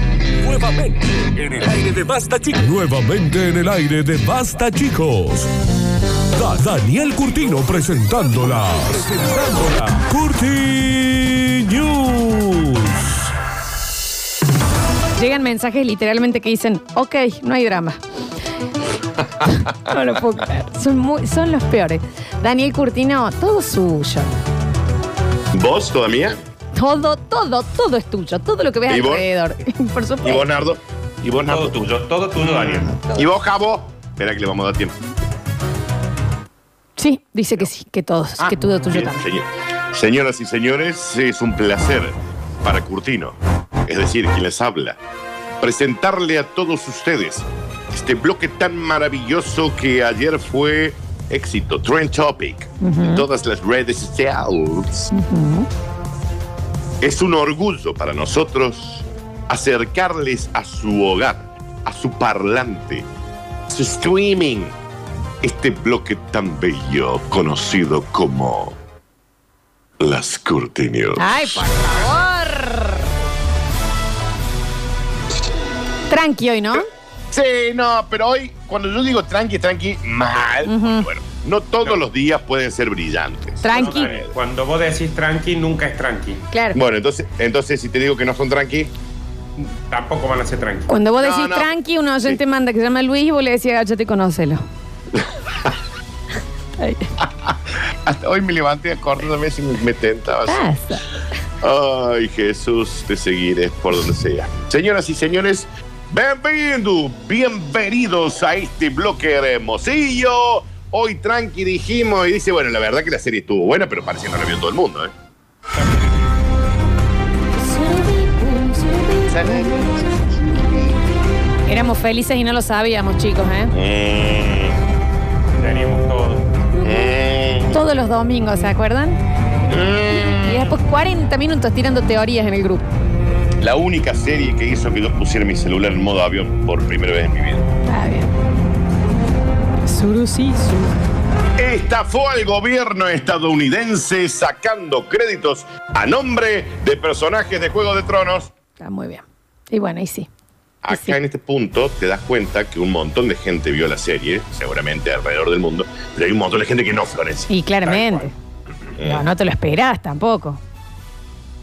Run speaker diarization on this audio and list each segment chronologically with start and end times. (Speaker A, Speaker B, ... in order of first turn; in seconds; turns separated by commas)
Speaker A: 0.4-5.5, Speaker A: 6.3-13.3, Speaker B: 15.2-18.0, Speaker B: 19.4-24.3, Speaker C: 25.5-26.4, Speaker B: 26.8-30.4, Speaker C: 28.9-29.2, Speaker C: 30.2-31.8, Speaker D: 31.5-32.9, Speaker C: 32.4-35.0, Speaker B: 37.0-39.3, Speaker C: 38.4-45.0, Speaker C: 45.6-55.1, Speaker B: 52.8-53.2, Speaker B: 55.1-55.7, Speaker C: 57.0-63.1, Speaker C: 63.7-64.7, Speaker C: 65.4-68.8, Speaker C: 70.0-71.7, Speaker B: 71.2-73.1, Speaker B: 76.1-76.8, Speaker C: 77.3-84.3, Speaker B: 80.6-81.1, Speaker B: 83.6-84.1, Speaker D: 83.7-86.4, Speaker B: 86.5-86.8, Speaker C: 86.7-88.9, Speaker D: 89.6-90.9, Speaker B: 90.9-94.6, Speaker C: 91.2-91.7, Speaker B: 96.8-97.1, Speaker C: 97.2-100.6, Speaker B: 100.5-101.1, Speaker C: 101.6-115.1, Speaker B: 117.6-119.8, Speaker C: 119.2-120.9, Speaker B: 121.7-123.7, Speaker C: 123.7-124.8, Speaker D: 125.5-126.5, Speaker B: 126.8-127.1, Speaker C: 126.8-127.8, Speaker B: 127.7-129.2, Speaker C: 129.7-130.7, Speaker B: 130.2-132.8, Speaker C: 133.6-137.7, Speaker B: 137.9-138.3, Speaker B: 139.8-140.9, Speaker C: 141.6-148.5, Speaker B: 148.8-150.3, Speaker C: 150.8-157.5, Speaker B: 150.9-151.2, Speaker B: 157.5-158.3, Speaker D: 157.8-158.3, Speaker C: 159.0-159.2, Speaker B: 159.0-160.6